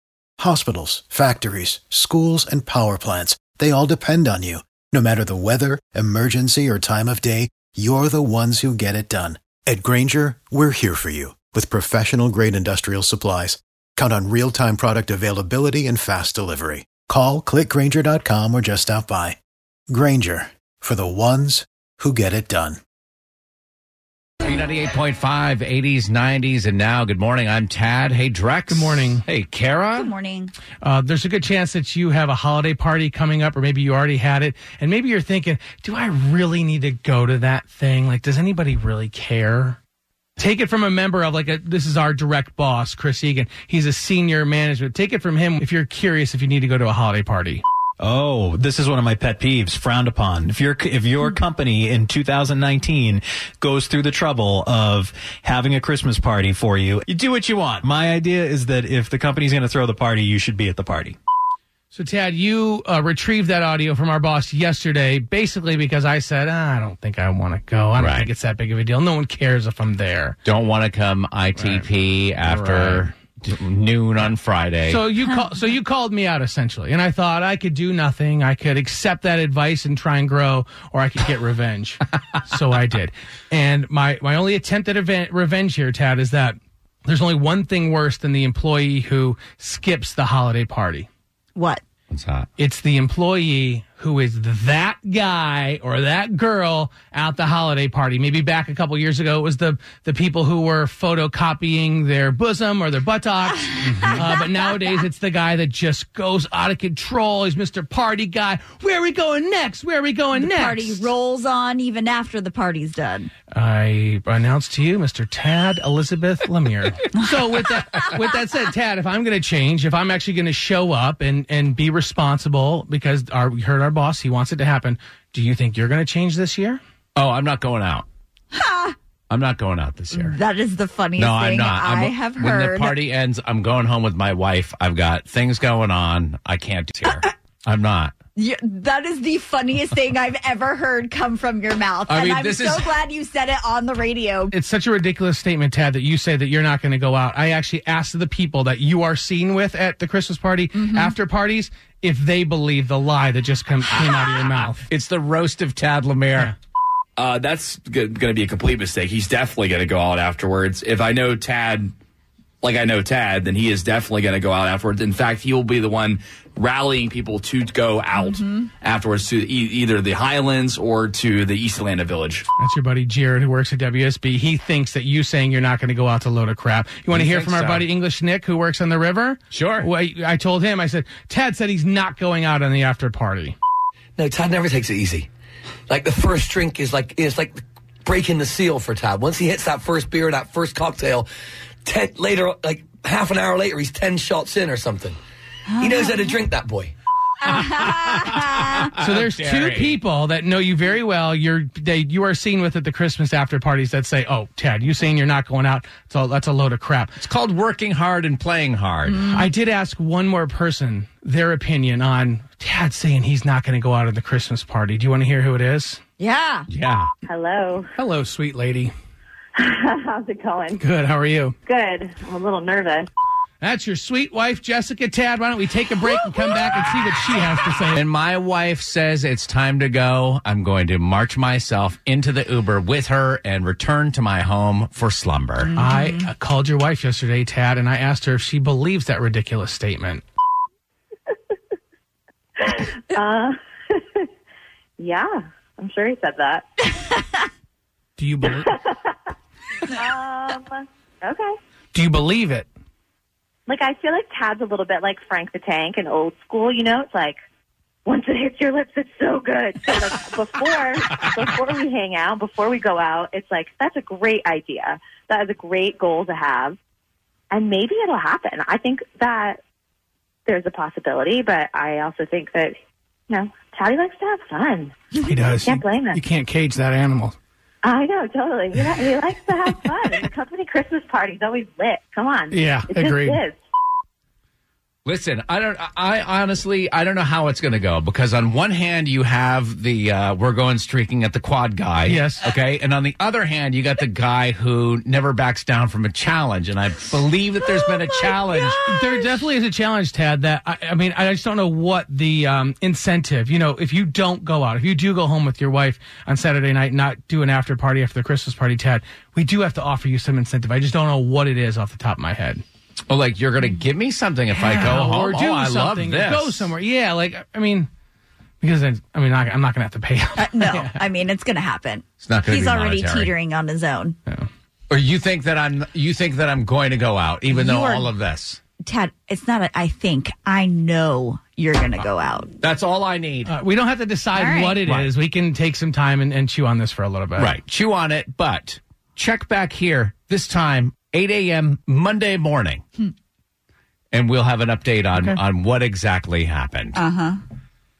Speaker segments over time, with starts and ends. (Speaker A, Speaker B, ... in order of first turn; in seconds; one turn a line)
Speaker A: 0.4-19.4
Speaker A: 19.9-22.8
Speaker B: 24.4-30.1
Speaker C: 28.7-29.2
Speaker D: 29.9-30.5
Speaker C: 30.8-39.8
Speaker C: 40.4-47.6
Speaker E: 48.0-61.2
Speaker C: 61.9-70.4
Speaker B: 68.0-68.3
Speaker B: 70.4-75.0
Speaker C: 71.5-73.1
Speaker C: 74.9-91.1
Speaker D: 75.2-75.6
Speaker D: 91.5-91.8
Speaker B: 92.1-92.5
Speaker C: 92.6-111.1
Speaker D: 110.3-113.3
Speaker C: 113.5-126.8
Speaker B: 127.1-128.1
Speaker D: 128.5-128.9
Speaker B: 129.3-130.3
Speaker D: 130.1-133.0
Speaker B: 131.2-138.1
Speaker D: 138.3-144.5
Speaker B: 142.1-142.9
Speaker C: 144.5-154.8
Speaker D: 150.7-151.2
Speaker B: 154.9-156.5
Speaker F: 157.2-161.9
Speaker F: 162.6-172.4
Speaker D: 168.1-168.6
Speaker C: 172.6-183.6
Speaker B: 177.1-177.9
Speaker B: 179.5-179.9
Speaker G: 184.2-185.3
Speaker G: 185.9-191.3
Speaker G: 191.8-195.2
Speaker D: 195.7-196.3
Speaker G: 195.8-196.9
Speaker D: 197.4-198.9
Speaker B: 197.7-200.0
Speaker C: 199.0-207.2
Speaker B: 207.2-209.3
Speaker D: 209.1-209.5
Speaker C: 209.3-216.0
Speaker D: 216.2-216.7
Speaker B: 216.7-217.1
Speaker H: 217.3-217.9
Speaker C: 217.9-218.9
Speaker H: 219.6-220.8
Speaker C: 220.8-221.5
Speaker H: 221.6-223.1
Speaker C: 223.6-228.0
Speaker B: 227.9-235.7
Speaker D: 235.7-236.3
Speaker C: 235.8-240.2
Speaker H: 242.6-244.3
Speaker H: 245.0-247.2
Speaker C: 248.2-248.7
Speaker H: 248.5-249.1
Speaker H: 249.9-251.5
Speaker C: 251.9-252.7
Speaker H: 253.7-257.4
Speaker H: 258.1-266.8
Speaker H: 267.5-269.6
Speaker H: 270.4-272.7
Speaker H: 273.3-276.2
Speaker C: 275.1-277.4
Speaker H: 277.8-283.6
Speaker C: 282.5-283.4
Speaker B: 285.1-299.2
Speaker C: 292.1-292.5
Speaker C: 298.7-312.6
Speaker B: 313.1-316.7
Speaker C: 314.5-317.9
Speaker C: 318.6-321.0
Speaker D: 320.4-324.2
Speaker B: 322.2-323.3
Speaker B: 324.9-328.6
Speaker C: 327.5-328.1
Speaker D: 328.8-332.5
Speaker B: 332.6-333.5
Speaker C: 333.5-337.5
Speaker D: 334.3-334.8
Speaker B: 334.8-335.1
Speaker B: 337.4-342.8
Speaker B: 344.1-347.0
Speaker D: 346.9-347.4